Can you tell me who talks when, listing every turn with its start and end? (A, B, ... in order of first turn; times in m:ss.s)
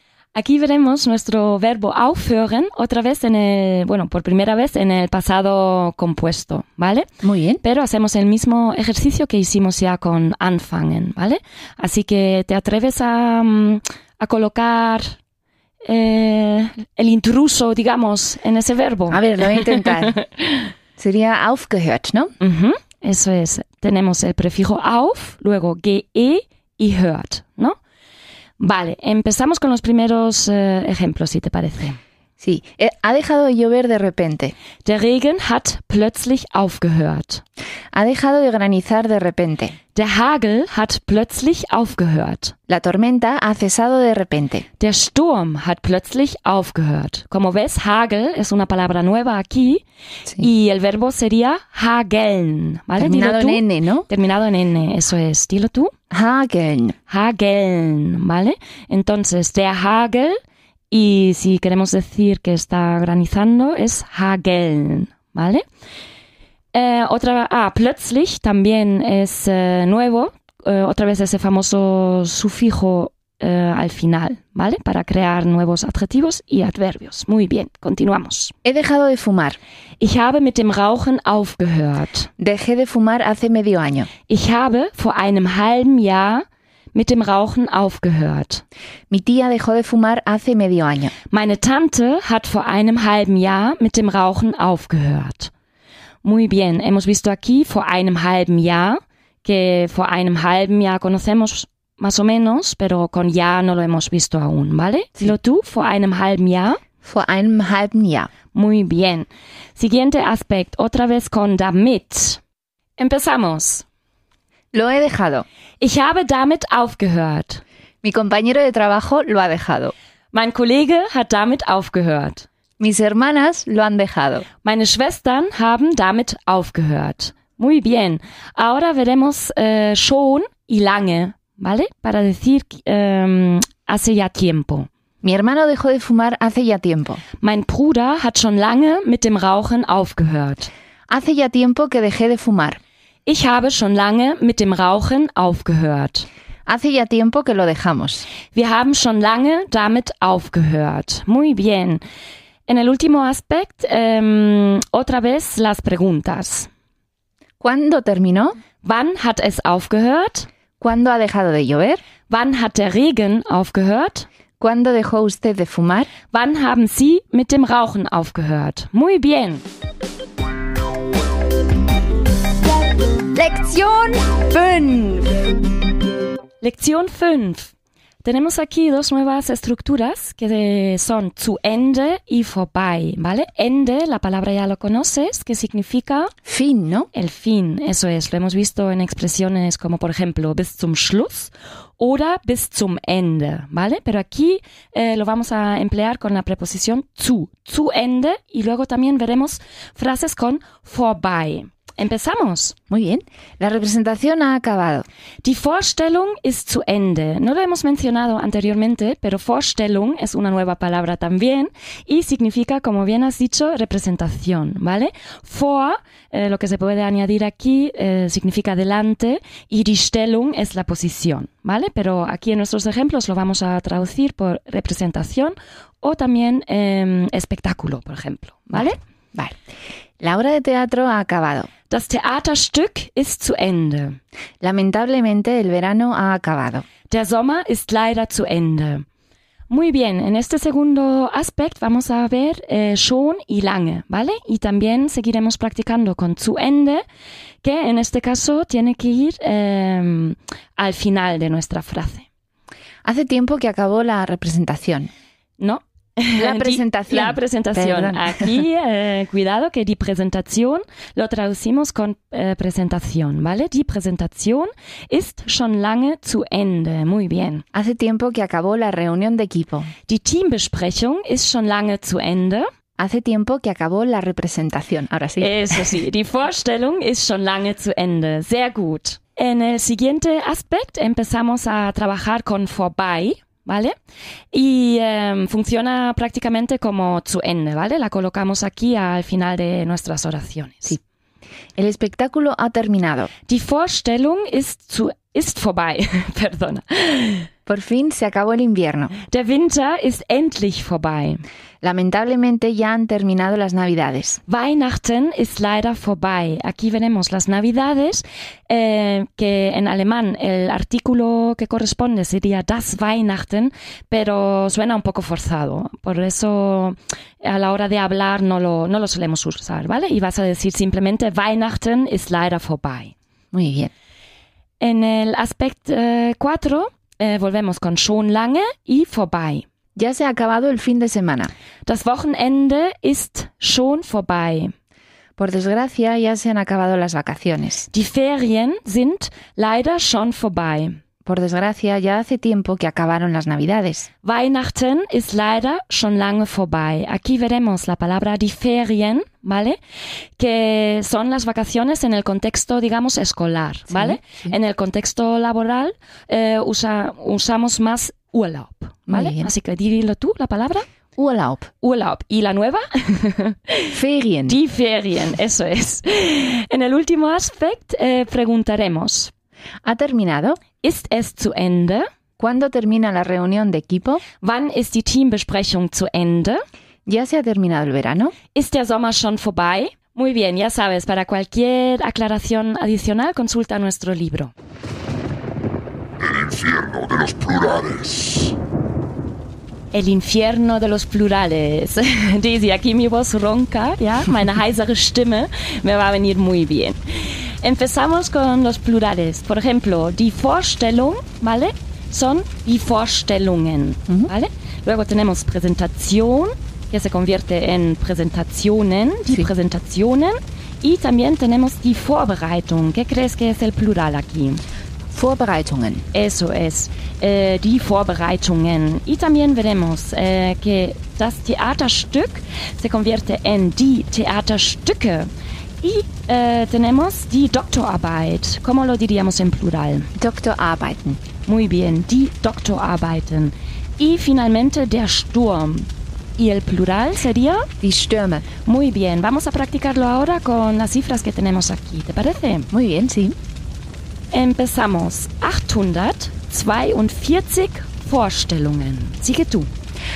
0:00.3-0:07.1 A
0:07.2-0:07.6 B
0:07.6-0:15.2 A
0:15.8-0:20.7 A
0:19.1-0:20.2 B
0:21.0-0:22.3 B
0:22.4-0:27.8 A
0:28.6-0:32.0 A
0:32.4-0:34.5 B
0:34.8-0:37.4 A
0:37.9-0:39.8 B
0:40.0-0:42.6 A
0:42.7-0:44.6 B
0:44.8-0:49.8 A
0:50.4-0:55.9 A
0:53.0-0:54.1 B
0:56.1-0:57.0 B
0:57.1-1:00.4 A
1:00.9-1:05.6 A
1:06.7-1:18.5 A
1:18.6-1:19.6 B
1:20.0-1:22.3 A
1:22.4-1:24.1 B
1:24.3-1:28.6 A
1:29.1-1:31.1 B
1:31.3-1:35.5 A
1:36.2-1:46.8 A
1:47.0-1:48.3 B
1:48.5-1:52.4 A
1:53.0-1:53.8 A
1:54.7-1:55.4 B
1:55.8-1:57.6 A
1:58.0-1:59.9 B
2:00.3-2:02.5 A
2:02.8-2:04.4 B
2:04.6-2:14.9 A
2:15.2-2:17.2 B
2:17.4-2:20.7 A
2:21.1-2:22.8 B
2:23.3-2:26.3 A
2:26.7-2:28.2 B
2:28.5-2:32.0 A
2:32.7-2:36.7 A
2:37.6-2:38.6 B
2:38.8-2:40.5 A
2:40.8-2:42.0 B
2:42.3-2:44.3 A
2:44.6-2:46.1 B
2:46.3-2:49.6 A
2:53.4-2:55.4 B
2:56.6-2:57.7 A
2:58.2-3:06.3 A
3:06.5-3:07.1 B
3:07.1-3:22.8 A
3:22.9-3:25.1 B
3:25.4-3:49.0 A
3:48.7-3:49.6 B
3:50.2-3:51.7 B
3:51.9-3:54.2 A
3:54.6-3:56.8 B
3:57.1-3:59.0 A
3:59.7-4:07.0 A
4:07.6-4:12.3 A
4:13.0-4:15.1 B
4:15.6-4:27.6 A
4:16.4-4:18.6 B
4:27.7-4:29.9 B
4:30.1-4:32.7 A
4:33.0-4:36.0 B
4:35.4-4:44.0 A
4:44.5-4:51.0 A
4:51.8-4:53.3 B
4:53.5-4:57.5 A
4:57.7-4:59.2 B
4:59.3-5:01.4 A
5:01.8-5:04.4 B
5:04.5-5:23.1 A
5:23.5-5:23.9 B
5:24.8-5:29.6 A
5:30.0-5:31.5 B
5:31.9-5:34.7 A
5:35.4-5:37.9 B
5:37.9-5:41.0 A
5:41.2-5:44.1 B
5:44.2-5:49.8 A
5:50.4-6:00.9 A
5:53.9-5:54.5 B
5:59.1-5:59.5 B
6:01.2-6:01.7 B
6:01.8-6:04.0 A
6:03.9-6:04.6 B
6:04.5-6:09.3 A
6:09.8-6:10.6 B
6:10.8-6:12.1 A
6:12.4-6:14.2 B
6:14.4-6:16.6 A
6:17.1-6:18.3 B
6:18.6-6:24.5 A
6:26.2-6:28.5 C
6:29.9-6:54.6 A
6:55.1-6:56.0 B
6:56.1-7:05.3 A
7:05.8-7:10.1 A
7:10.2-7:11.2 B
7:11.5-7:17.7 A
7:17.8-7:18.5 B
7:18.6-7:22.7 A
7:22.7-7:23.4 B
7:24.3-7:29.7 A